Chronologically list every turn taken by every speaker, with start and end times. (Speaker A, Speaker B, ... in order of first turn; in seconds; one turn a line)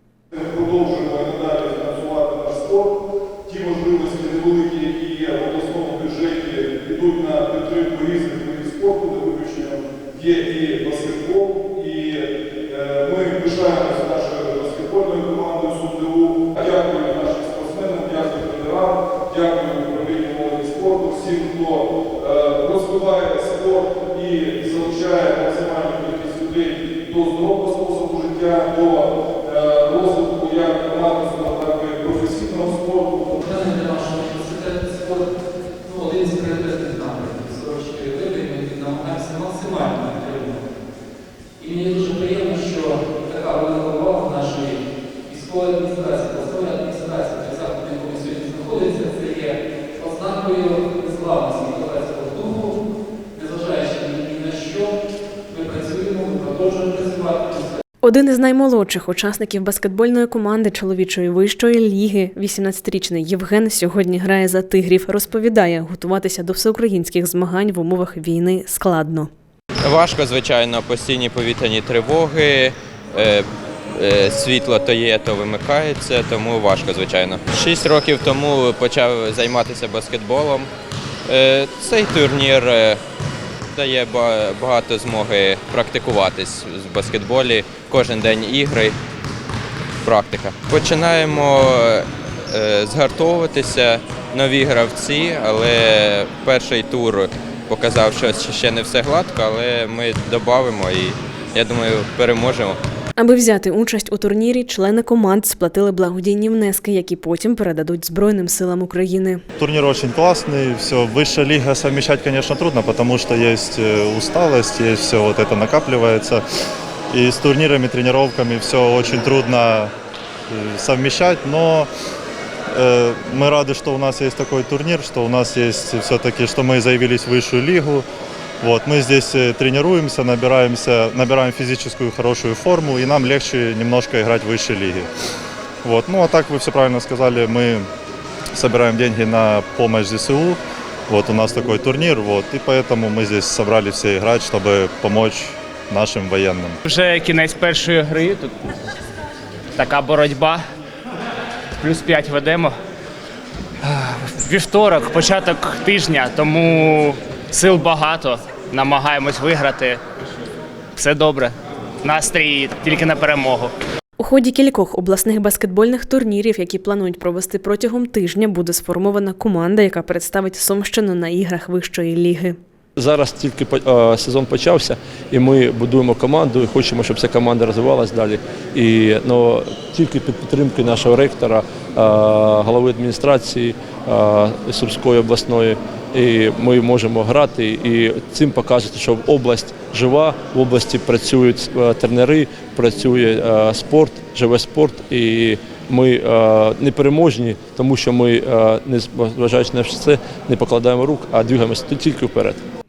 Speaker A: 0.3-33.4
Speaker B: 33.4-35.3
Speaker B: 35.8-40.6
Speaker B: 41.6-52.8
Speaker B: 53.3-55.0
Speaker B: 55.5-57.8
Speaker C: 58.0-69.3
Speaker D: 69.8-80.7
Speaker D: 81.3-83.0
Speaker D: 83.7-89.0
Speaker D: 90.0-102.8
Speaker C: 103.2-109.4
Speaker E: 109.6-116.4
Speaker E: 117.1-119.9
Speaker E: 120.5-121.9
Speaker E: 122.7-128.0
Speaker E: 128.6-135.1
Speaker E: 135.8-137.9
Speaker E: 138.5-146.8
Speaker F: 146.8-148.5
Speaker F: 149.8-150.6
Speaker F: 151.8-152.8
Speaker F: 153.8-160.0
Speaker F: 160.9-163.7
Speaker C: 164.2-172.6
Speaker G: 173.0-202.6